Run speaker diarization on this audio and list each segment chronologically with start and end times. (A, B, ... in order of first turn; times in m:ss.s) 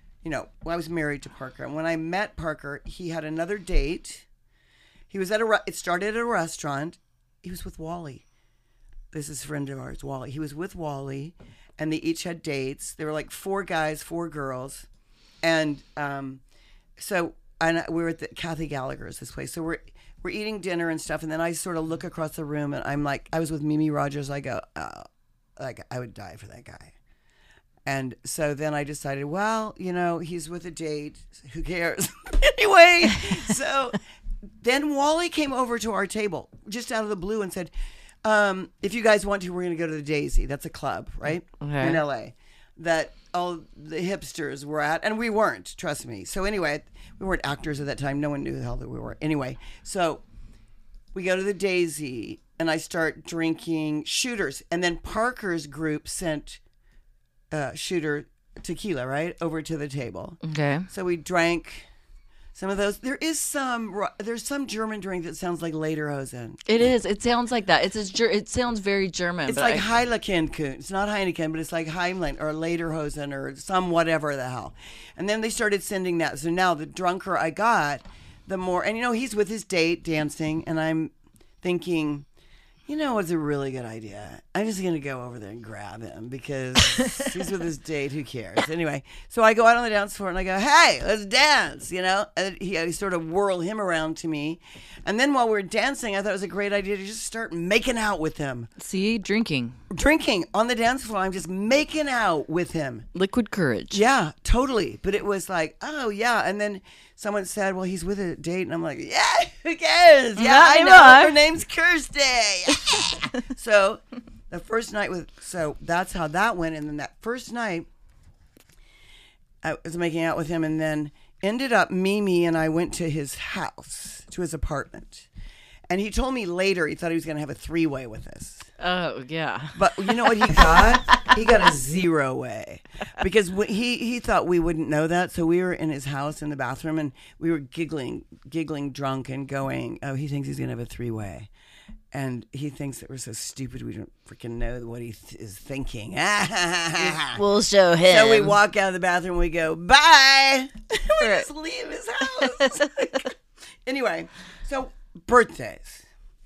0:00.2-0:04.2 A
0:05.1-0:08.2 A
0:09.1-0:14.9 A
0:15.4-0:16.4 A
0:17.0-0:26.9 A
0:27.9-0:34.0 A
0:34.6-0:37.7 A
0:38.2-0:50.2 A
0:41.6-0:42.0 B
0:51.1-0:56.6 A
0:57.5-1:01.9 A
1:00.4-1:00.9 B
1:02.6-1:06.6 A
1:06.7-1:09.8 B
1:09.5-1:22.3 A
1:22.9-1:38.7 A
1:27.0-1:27.3 B
1:38.8-1:39.8 B
1:39.9-1:43.1 A
1:43.1-1:44.0 B
1:43.9-1:57.9 A
1:50.4-1:51.4 B
1:59.6-2:05.3 A
2:05.9-2:08.7 A
2:08.8-2:11.3 B
2:09.8-2:21.5 A
2:22.1-2:27.4 A
2:27.0-2:28.6 B
2:28.1-2:36.0 A
2:31.2-2:31.5 B
2:32.4-2:32.9 B